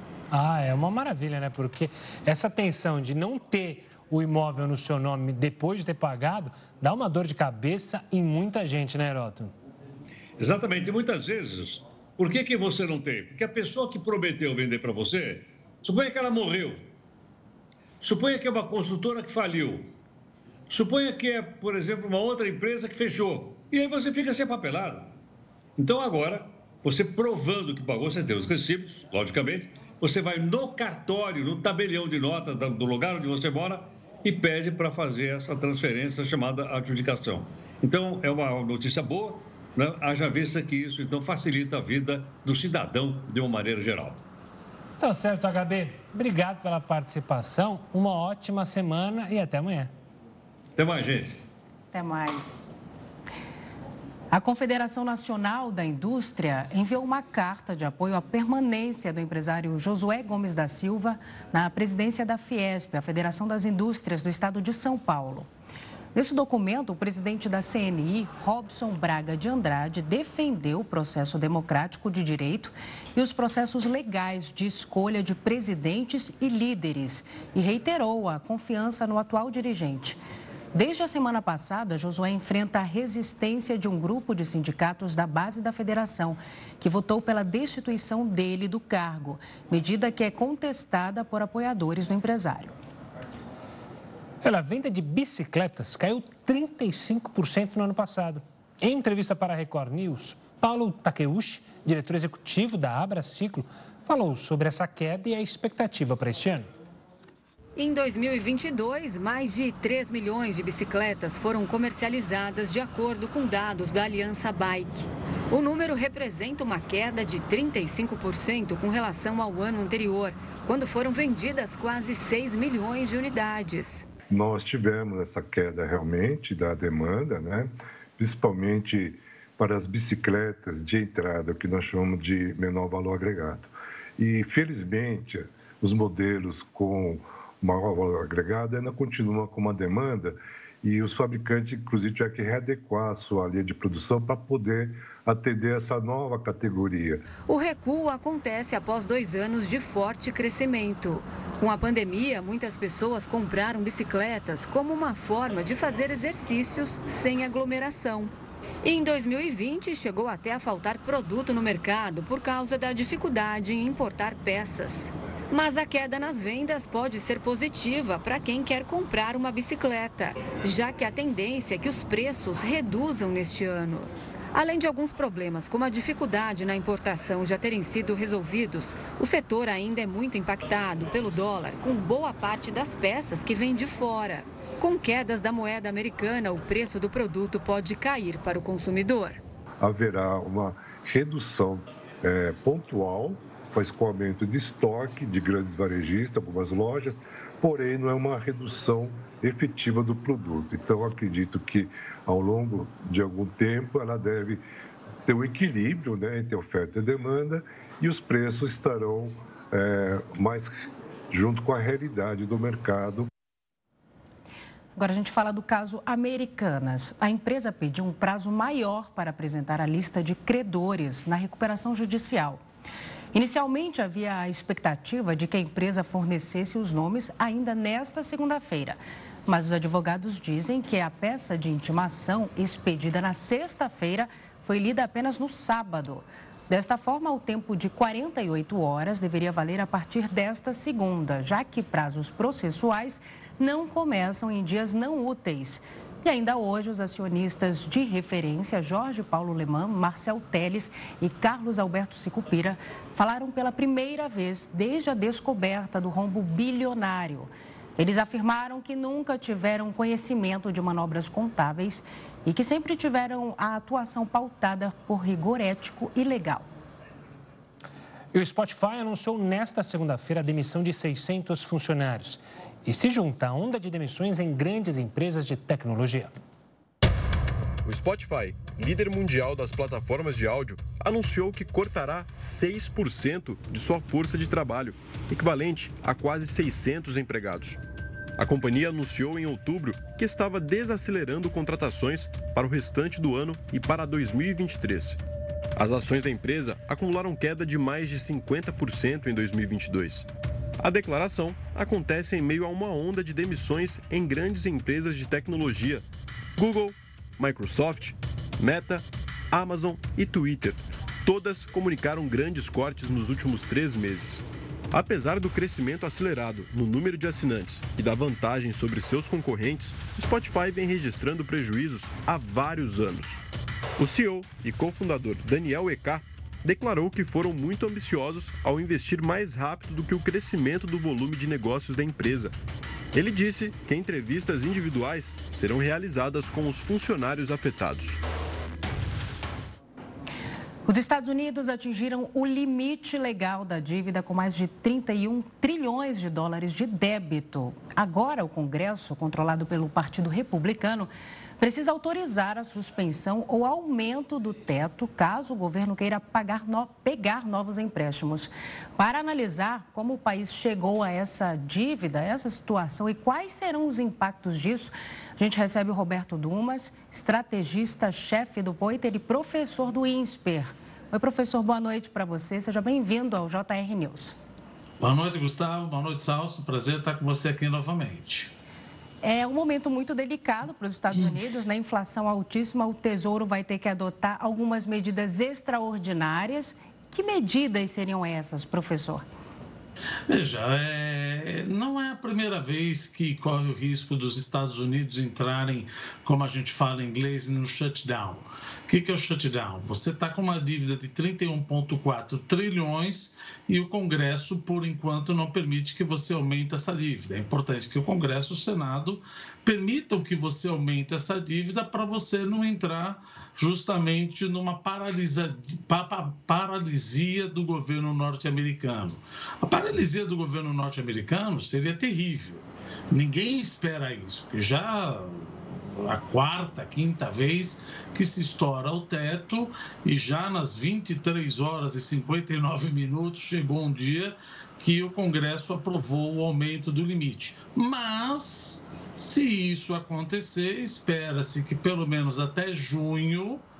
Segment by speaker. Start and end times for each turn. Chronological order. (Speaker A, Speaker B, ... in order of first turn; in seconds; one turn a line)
Speaker A: 0.3-9.5
Speaker B: 10.4-16.9
Speaker B: 18.0-19.9
Speaker B: 20.7-25.1
Speaker B: 25.8-44.2
Speaker A: 45.0-49.9
Speaker B: 50.8-51.4
Speaker C: 51.9-52.6
Speaker C: 54.3-65.5
Speaker C: 66.1-80.2
Speaker C: 80.7-92.7
Speaker A: 94.4-106.7
Speaker D: 107.8-124.0
Speaker E: 124.3-147.2
Speaker D: 147.5-158.3
Speaker D: 158.8-189.4
Speaker E: 189.8-204.6
Speaker E: 205.2-210.7
Speaker E: 211.3-213.3
Speaker C: 215.0-222.6
Speaker C: 223.3-266.7
Speaker A: 268.3-276.3
Speaker F: 277.8-287.8
Speaker F: 288.4-295.2
Speaker F: 295.8-300.3
Speaker F: 300.8-306.0
Speaker F: 306.6-323.4
Speaker F: 324.0-332.5
Speaker F: 333.1-338.2
Speaker C: 340.9-374.3
Speaker G: 375.0-378.5
Speaker C: 379.2-389.2
Speaker G: 390.3-443.6